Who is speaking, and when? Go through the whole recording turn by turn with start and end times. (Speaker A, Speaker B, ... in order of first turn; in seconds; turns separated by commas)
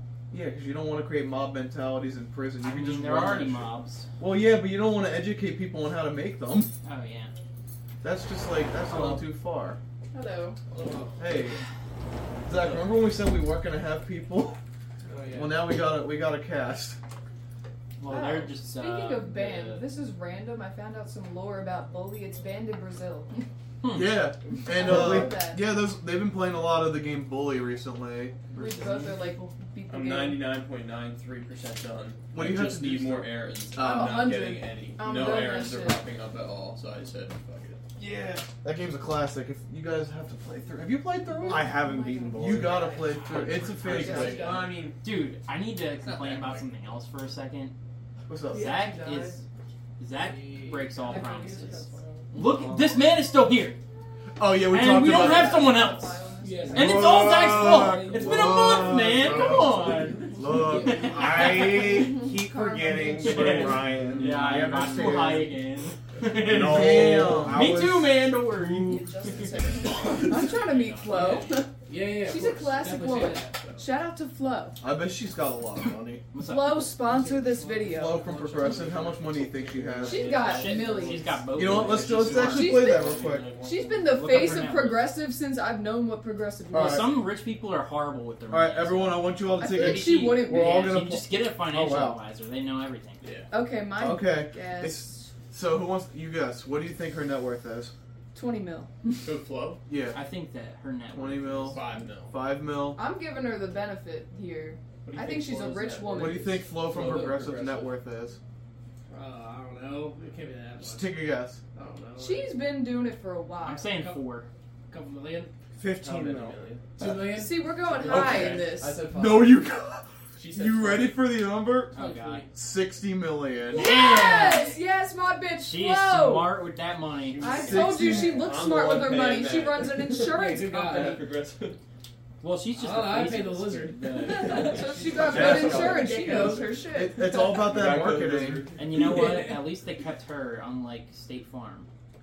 Speaker A: 0.3-6.7, Speaker B: 2.6-4.1, Speaker B: 6.8-7.3, Speaker A: 8.0-9.8, Speaker B: 8.9-9.3, Speaker C: 10.1-10.6, Speaker D: 10.7-11.2, Speaker E: 10.7-11.2, Speaker A: 11.2-11.6, Speaker A: 12.4-14.6, Speaker D: 12.5-12.9, Speaker E: 15.1-15.7, Speaker A: 15.3-17.0, Speaker B: 18.0-19.8, Speaker C: 18.1-23.5, Speaker A: 23.9-28.4, Speaker C: 24.7-25.6, Speaker F: 24.7-25.4, Speaker B: 28.5-29.3, Speaker C: 28.5-30.5, Speaker D: 29.9-38.5, Speaker A: 32.3-34.3, Speaker C: 33.8-36.0, Speaker A: 38.6-41.8, Speaker C: 41.3-44.8, Speaker F: 41.5-43.0, Speaker A: 42.3-44.6, Speaker D: 43.3-45.0, Speaker B: 43.3-43.6, Speaker B: 45.0-47.7, Speaker D: 46.1-46.6, Speaker A: 48.3-48.8, Speaker B: 48.5-49.4, Speaker C: 48.5-49.4, Speaker B: 50.0-51.8, Speaker E: 50.1-52.0, Speaker C: 51.0-52.5, Speaker B: 52.3-53.8, Speaker F: 52.4-53.0, Speaker A: 54.4-55.8, Speaker B: 54.7-56.2, Speaker C: 55.0-57.2, Speaker E: 56.4-58.4, Speaker B: 56.7-61.8, Speaker F: 56.8-59.8, Speaker A: 58.1-61.2, Speaker E: 59.8-61.4, Speaker F: 61.1-65.6, Speaker C: 61.3-63.9, Speaker B: 63.2-71.6, Speaker D: 64.2-64.8, Speaker A: 64.9-65.4, Speaker D: 66.3-67.6, Speaker A: 66.4-67.7, Speaker F: 67.3-68.2, Speaker C: 68.9-74.8, Speaker E: 71.8-73.6, Speaker A: 74.8-76.2, Speaker B: 76.3-77.3, Speaker C: 76.4-78.3, Speaker E: 77.1-79.3, Speaker A: 77.8-80.4, Speaker D: 78.3-84.2, Speaker C: 80.0-81.4, Speaker B: 80.4-82.7, Speaker A: 81.5-83.5, Speaker C: 82.4-87.2, Speaker B: 84.1-85.1, Speaker A: 86.7-87.1, Speaker B: 86.7-93.2, Speaker A: 88.5-92.2, Speaker C: 89.6-90.9, Speaker D: 93.2-93.5, Speaker C: 93.5-95.2, Speaker A: 94.0-97.9, Speaker C: 98.3-99.3, Speaker D: 99.2-99.8, Speaker A: 99.9-100.2, Speaker B: 100.1-101.8, Speaker A: 101.1-103.0, Speaker D: 101.6-102.4, Speaker C: 103.0-106.6, Speaker D: 105.0-107.9, Speaker A: 106.1-108.4, Speaker E: 106.7-107.7, Speaker E: 109.1-112.6, Speaker A: 110.8-111.6, Speaker C: 112.2-113.9, Speaker B: 113.6-114.5, Speaker E: 113.9-114.2, Speaker E: 114.9-115.5, Speaker F: 115.8-116.6, Speaker D: 116.0-117.0, Speaker E: 117.0-118.6, Speaker A: 117.0-117.4, Speaker C: 117.2-119.0, Speaker D: 117.9-119.6, Speaker F: 118.1-118.7, Speaker A: 119.1-122.0, Speaker D: 120.4-121.2, Speaker B: 122.0-122.5, Speaker E: 122.0-122.5, Speaker A: 122.5-123.9, Speaker B: 123.7-124.8, Speaker C: 123.7-126.6, Speaker B: 125.6-127.8, Speaker D: 127.3-131.8, Speaker C: 127.4-131.2, Speaker E: 128.0-128.4, Speaker E: 130.3-131.2, Speaker B: 132.4-135.0, Speaker E: 132.7-136.8, Speaker C: 134.2-137.8, Speaker F: 135.2-136.3, Speaker D: 135.2-136.5, Speaker A: 135.4-135.7, Speaker A: 136.9-138.6, Speaker D: 137.4-138.9, Speaker B: 138.8-141.9, Speaker E: 138.9-139.7